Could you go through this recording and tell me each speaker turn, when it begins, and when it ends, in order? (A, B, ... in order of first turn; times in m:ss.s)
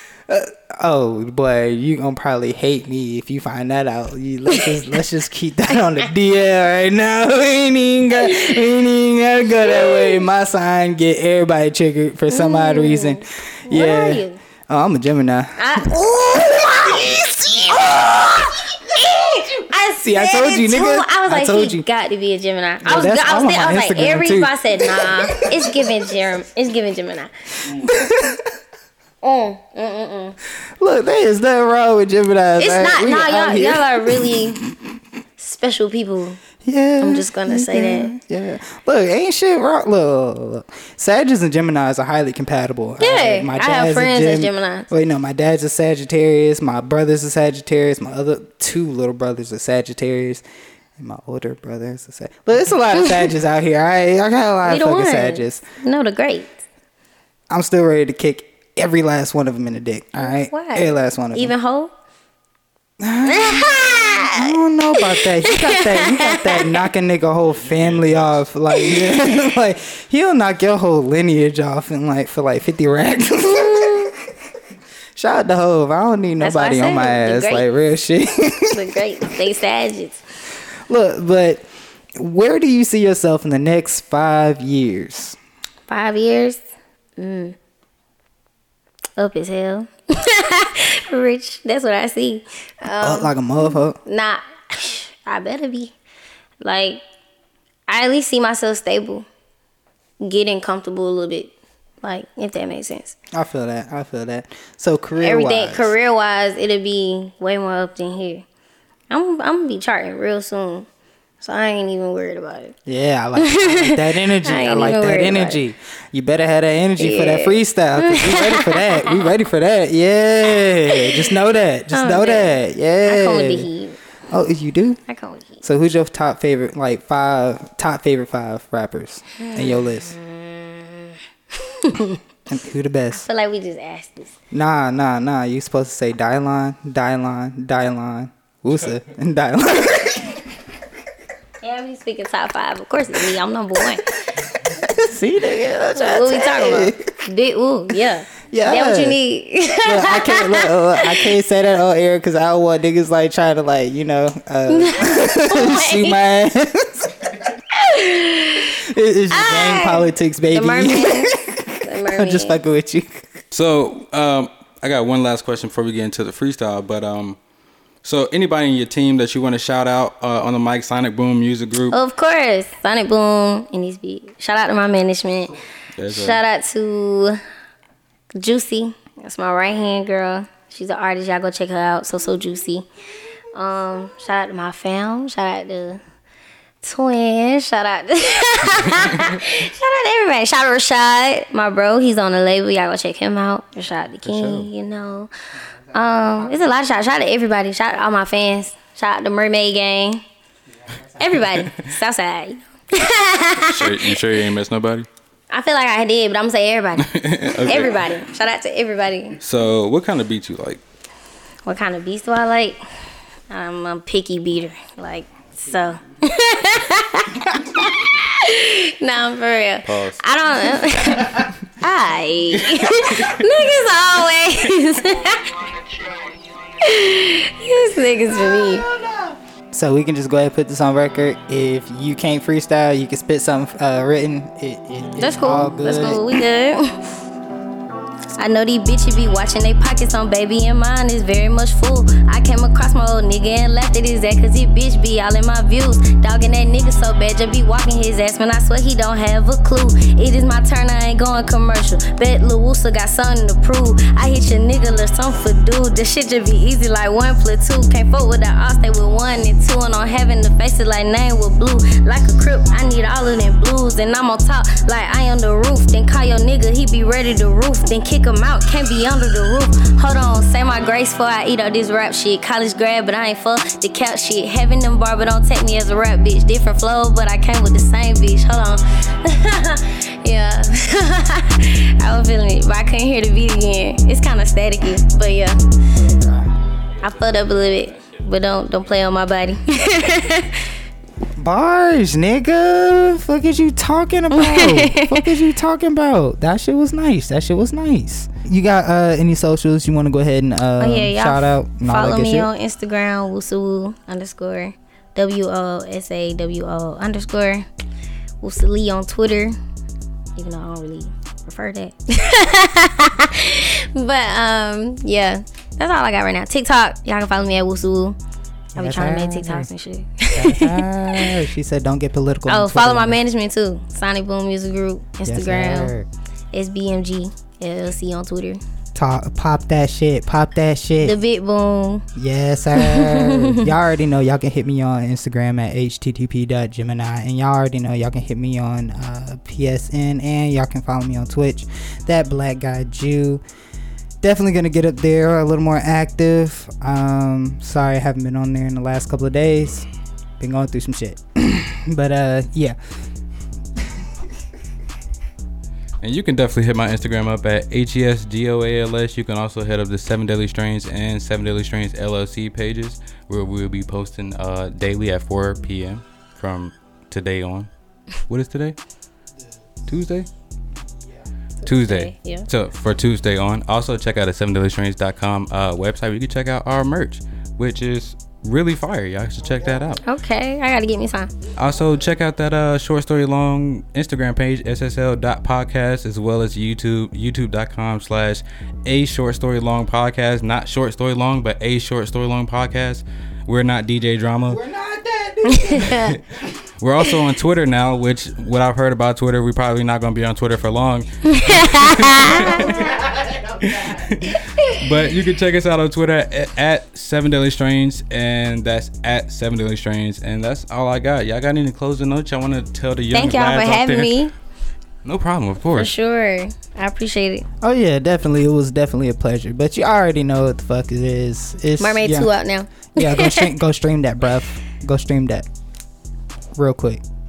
0:00.3-0:18.6 A
0:04.5-0:04.8 B
0:08.2-0:08.6 B
0:09.6-0:10.3 B
0:12.3-0:14.4 B
0:15.6-0:27.3 B
0:19.4-0:21.9 A
0:22.8-0:25.9 A
0:27.7-0:28.5 A
0:29.2-0:30.4 B
0:30.8-0:34.4 A
0:32.6-0:34.6 B
0:35.4-0:36.4 B
0:36.6-0:50.4 A
0:37.0-0:38.1 B
0:43.0-0:44.9 B
0:51.0-0:55.6 A
0:54.6-0:56.6 B
0:57.5-1:01.5 A
1:00.2-1:01.9 B
1:03.0-1:03.7 A
1:03.3-1:06.8 B
1:04.3-1:14.2 A
1:07.6-1:08.4 C
1:08.7-1:09.3 B
1:13.5-1:14.1 B
1:15.2-1:18.8 A
1:16.4-1:17.6 B
1:18.7-1:20.2 B
1:20.9-1:21.6 A
1:22.2-1:25.4 A
1:25.9-1:26.6 B
1:27.2-1:27.6 B
1:29.2-1:36.0 B
1:33.0-1:34.0 A
1:36.6-1:37.0 B
1:37.9-1:39.3 B
1:40.2-1:43.2 B
1:43.3-1:45.9 A
1:45.2-1:48.4 B
1:49.1-1:50.9 B
1:51.4-1:52.8 B
1:52.9-2:03.7 A
1:53.4-1:55.6 B
1:57.0-1:59.2 B
2:00.9-2:01.3 B
2:01.9-2:04.0 B
2:04.3-2:05.0 A
2:05.1-2:05.6 B
2:05.6-2:10.2 A
2:09.4-2:12.2 B
2:12.5-2:13.3 A
2:13.1-2:14.3 B
2:14.5-2:20.5 A
2:21.6-2:24.1 B
2:24.3-2:27.2 A
2:26.0-2:31.3 B
2:28.5-2:29.2 A
2:29.8-2:37.5 A
2:34.7-2:36.2 B
2:37.7-2:41.3 B
2:38.8-2:43.3 A
2:41.8-2:42.6 B
2:43.5-2:47.4 C
2:48.0-2:52.0 C
2:51.9-2:55.5 B
2:56.0-2:56.4 C
2:56.1-2:57.4 B
2:58.4-3:02.9 B
3:03.5-3:06.0 B
3:06.8-3:15.3 B
3:14.2-3:14.7 C
3:15.9-3:20.2 B
3:21.2-3:24.2 B
3:23.6-3:25.1 C
3:25.5-3:29.4 B
3:27.0-3:28.2 C
3:29.4-3:30.8 C
3:31.7-3:32.8 B
3:33.5-3:45.5 B
3:39.8-3:40.2 C
3:46.8-3:48.9 B
3:48.3-3:56.4 A
3:55.2-3:57.0 B
3:58.4-4:45.6 B
4:46.1-4:46.5 A
4:47.0-4:50.7 B
4:51.4-5:02.5 A
4:54.3-4:55.4 B
5:00.8-5:07.7 B
5:08.4-5:09.6 B
5:10.4-5:18.2 B
5:18.7-5:19.7 A
5:18.8-5:21.4 B
5:20.3-5:23.2 A
5:22.5-5:25.9 B
5:25.2-5:26.1 A
5:26.5-5:28.6 B
5:29.0-5:31.2 A
5:31.0-5:32.1 B
5:32.2-5:43.4 A
5:32.8-5:33.7 B
5:44.2-5:49.9 A
5:50.4-5:52.8 A
5:56.0-6:07.7 C
6:08.3-6:08.8 C
6:09.9-6:10.3 C
6:11.6-6:20.0 C
6:11.7-6:12.5 B
6:20.0-6:21.3 B
6:21.6-6:34.6 C
6:34.5-6:36.1 A
6:35.5-6:36.2 B
6:35.9-6:43.0 C
6:41.3-6:42.8 B
6:42.3-6:44.1 A
6:43.6-6:54.2 C
6:44.3-6:45.0 B
6:53.1-6:54.3 B
6:55.0-6:55.9 C
6:55.8-6:57.5 B
6:57.6-7:02.3 A
7:01.8-7:03.5 B
7:02.9-7:05.5 A
7:06.6-7:07.0 A